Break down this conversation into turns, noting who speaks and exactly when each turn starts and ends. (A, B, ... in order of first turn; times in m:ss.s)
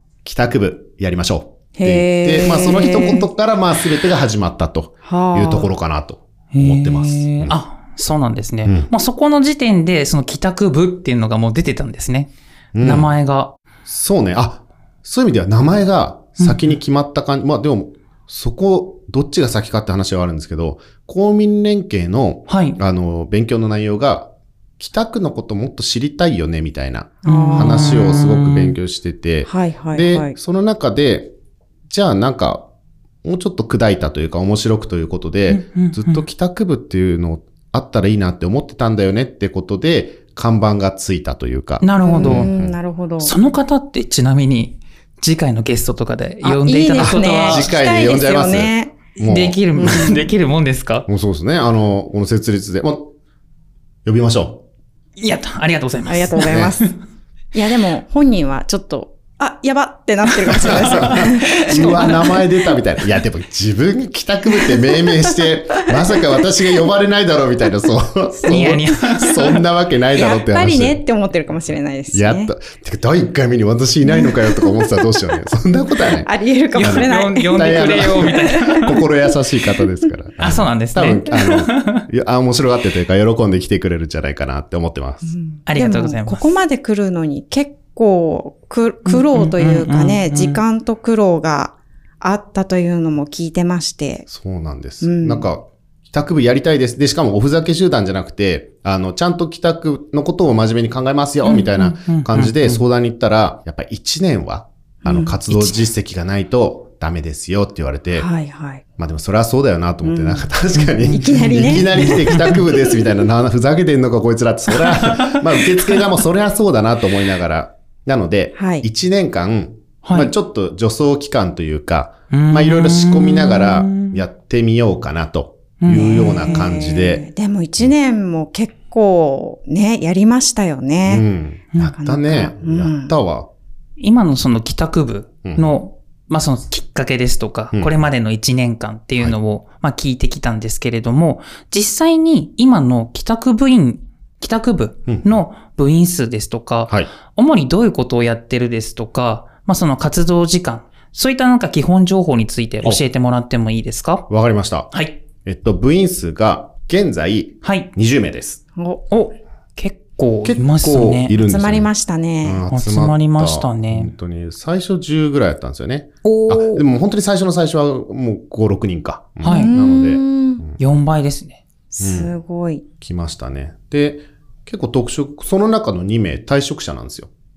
0:00.2-0:07.6 A
0:01.7-0:03.3 B
0:05.0-0:05.7 B
0:06.5-0:13.6 C
0:12.7-0:13.1 A
0:13.8-0:31.3 A
0:16.4-0:16.6 C
0:22.5-0:22.8 C
0:27.2-0:28.0 B
0:27.2-0:28.8 C
0:29.4-0:30.4 B
0:31.9-0:32.6 A
0:33.2-0:42.8 A
0:35.5-0:36.2 C
0:41.8-0:42.5 C
0:42.0-0:43.3 B
0:43.2-0:47.7 C
0:46.4-0:49.0 B
0:47.0-0:50.2 A
0:49.2-0:51.1 C
0:49.7-0:50.3 B
0:51.1-0:53.1 A
0:54.0-0:54.6 A
0:55.2-0:56.9 C
0:56.0-0:56.9 B
0:56.4-0:56.8 A
0:57.5-1:02.4 B
1:00.5-1:11.0 A
1:00.6-1:02.4 C
1:08.4-1:09.6 C
1:10.1-1:12.5 B
1:12.1-1:16.3 A
1:14.0-1:14.9 B
1:16.2-1:18.9 B
1:16.7-1:19.0 C
1:16.8-1:25.3 A
1:20.4-1:22.0 C
1:25.2-1:34.3 B
1:25.7-1:26.5 C
1:29.0-1:30.6 C
1:34.3-1:48.3 A
1:35.0-1:35.5 B
1:41.4-1:42.8 C
1:45.0-1:45.4 B
1:48.1-1:48.8 B
1:49.0-2:07.2 A
1:50.0-1:50.5 B
1:51.0-1:52.6 C
1:51.1-1:52.4 B
1:54.9-1:56.0 C
1:58.6-1:58.8 B
2:00.0-2:00.3 C
2:02.3-2:04.2 C
2:05.8-2:06.6 C
2:05.9-2:11.2 B
2:11.0-2:13.5 A
2:11.8-2:13.1 B
2:14.0-2:34.3 C
2:15.4-2:15.7 A
2:25.1-2:25.4 A
2:34.3-2:34.9 A
2:34.9-2:35.2 C
2:35.4-2:38.6 A
2:37.6-2:37.9 C
2:38.8-2:39.0 B
2:39.1-2:41.4 C
2:40.4-2:41.9 A
2:41.4-2:42.6 B
2:42.4-2:50.8 A
2:42.7-2:44.1 C
2:46.2-2:46.8 C
2:49.4-2:49.7 C
2:49.4-2:50.6 B
2:50.8-2:51.6 C
2:51.9-2:52.8 B
2:52.0-2:52.3 A
2:53.0-2:57.3 A